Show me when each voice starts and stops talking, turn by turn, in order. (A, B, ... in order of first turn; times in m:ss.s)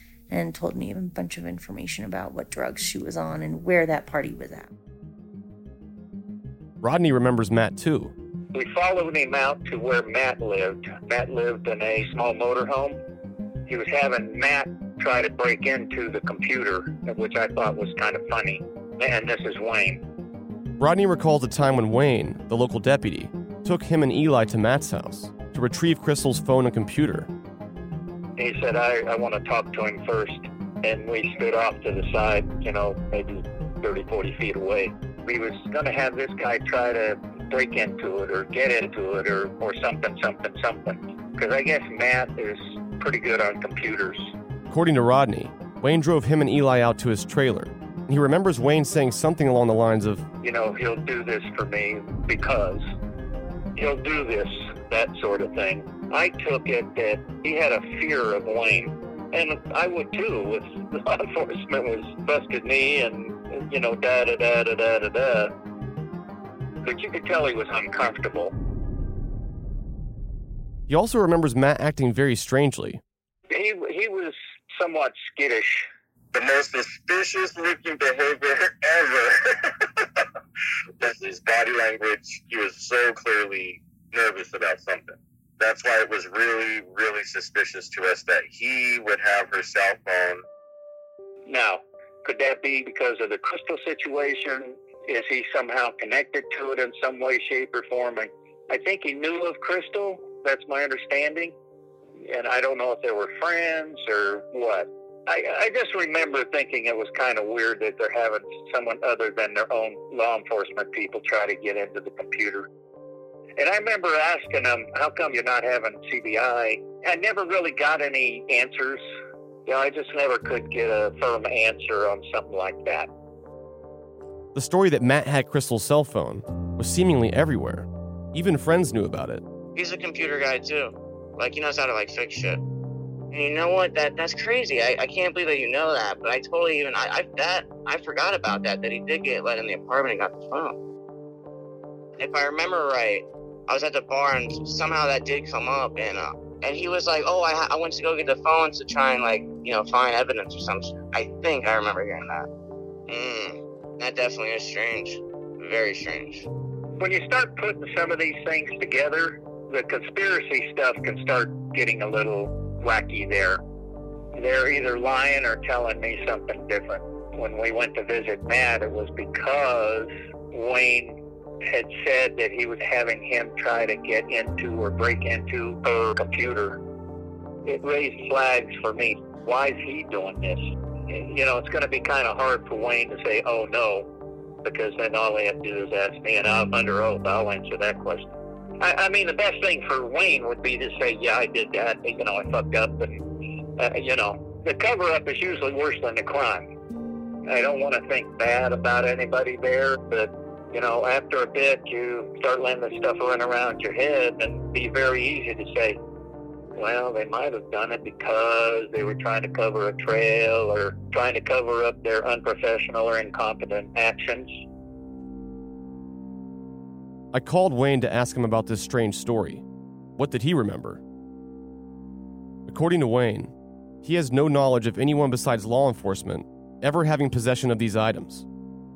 0:00.3-0:04.7 A
0:06.8-0:08.1 B
0:08.5-0:13.0 C
0:13.7-0:20.0 C
0:20.8-0:27.3 B
0:28.4-0:44.3 C
0:44.7-0:50.2 B
0:50.4-0:52.8 C
0:53.7-1:05.5 C
1:06.8-1:08.5 C
1:10.9-1:13.0 B
1:13.5-1:15.9 C
1:16.3-1:19.4 D
1:21.0-1:30.4 D
1:31.5-1:41.5 C
1:42.2-1:52.7 C
1:53.6-1:59.0 C
1:59.6-2:03.1 C
2:04.6-2:09.4 B
2:09.8-2:12.6 E
2:13.3-2:20.8 E
2:22.2-2:32.5 E
2:33.1-2:36.5 E
2:37.0-2:43.6 C
2:44.4-2:56.8 C
2:57.6-3:04.1 C
3:04.6-3:13.2 C
3:13.8-3:16.7 C
3:17.5-3:26.0 C
3:26.8-3:34.6 C
3:37.3-3:39.6 B
3:40.2-3:41.0 B
3:42.7-3:43.5 B
3:44.0-3:48.5 B